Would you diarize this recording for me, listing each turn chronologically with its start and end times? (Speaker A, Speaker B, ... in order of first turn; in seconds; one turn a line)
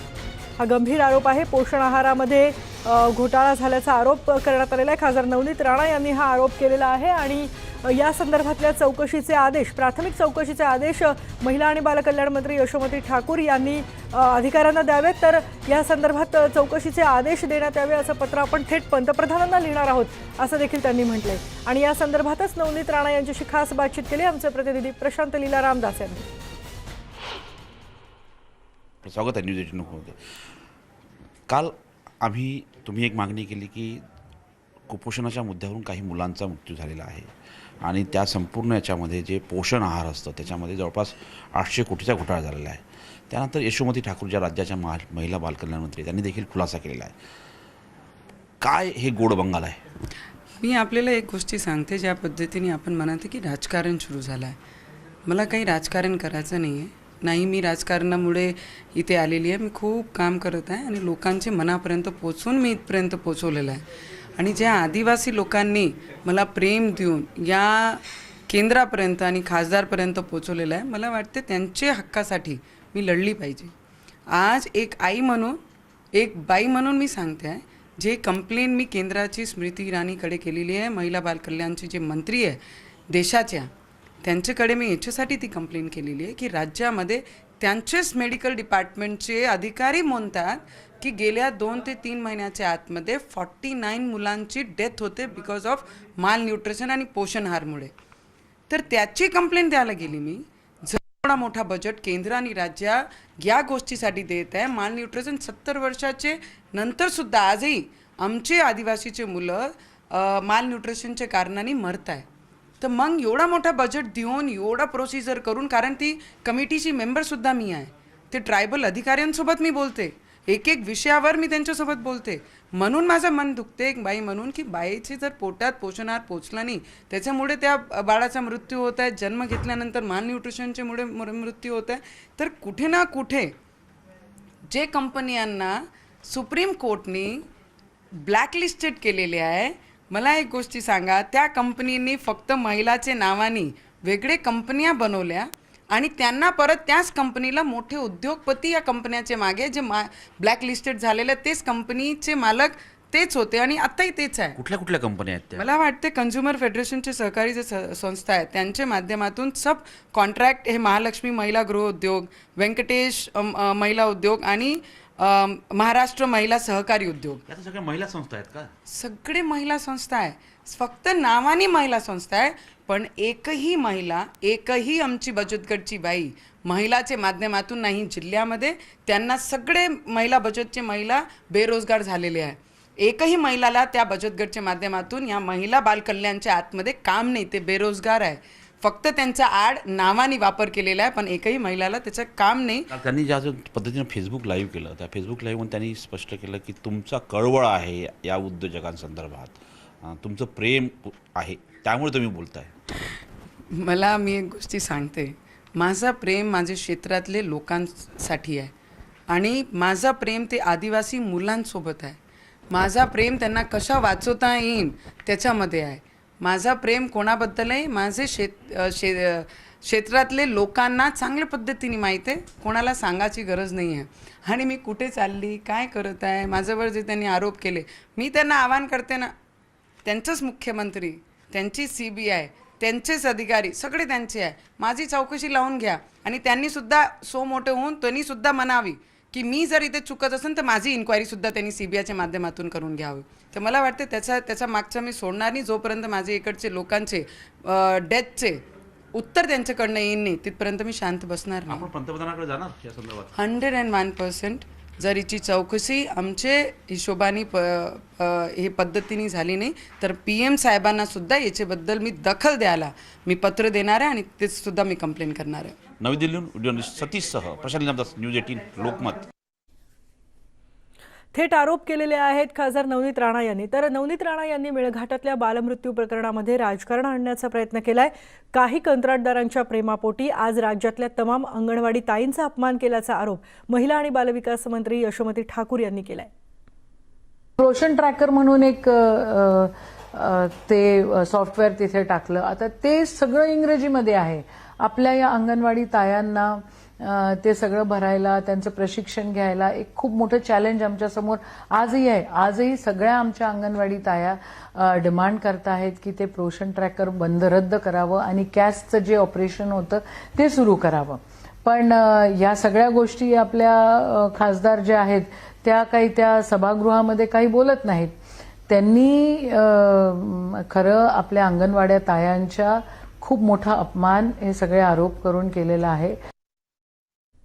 Speaker A: 0.6-26.3
Speaker B: 29.0-30.2
Speaker B: 31.5-34.0
Speaker B: 34.9-37.3
Speaker B: 37.8-47.1
Speaker B: 48.6-49.8
Speaker C: 50.6-54.5
Speaker C: 55.3-63.8
Speaker C: 64.4-73.7
Speaker C: 74.3-75.6
Speaker C: 76.2-82.6
Speaker C: 83.1-83.7
Speaker C: 84.2-97.9
Speaker C: 98.7-112.3
Speaker C: 112.8-133.5
Speaker C: 134.7-137.5
Speaker C: 138.2-154.6
Speaker B: 154.6-155.7
Speaker C: 155.6-167.4
Speaker B: 167.5-168.7
Speaker C: 168.9-192.9
Speaker B: 192.9-202.7
Speaker C: 203.7-208.7
Speaker C: 209.3-212.2
Speaker C: 212.7-229.3
Speaker C: 230.1-248.6
Speaker C: 249.1-251.9
Speaker B: 251.7-253.3
Speaker C: 253.3-265.8
Speaker B: 266.0-269.2
Speaker A: 271.3-286.3
Speaker D: 287.6-318.1
Speaker D: 318.7-326.2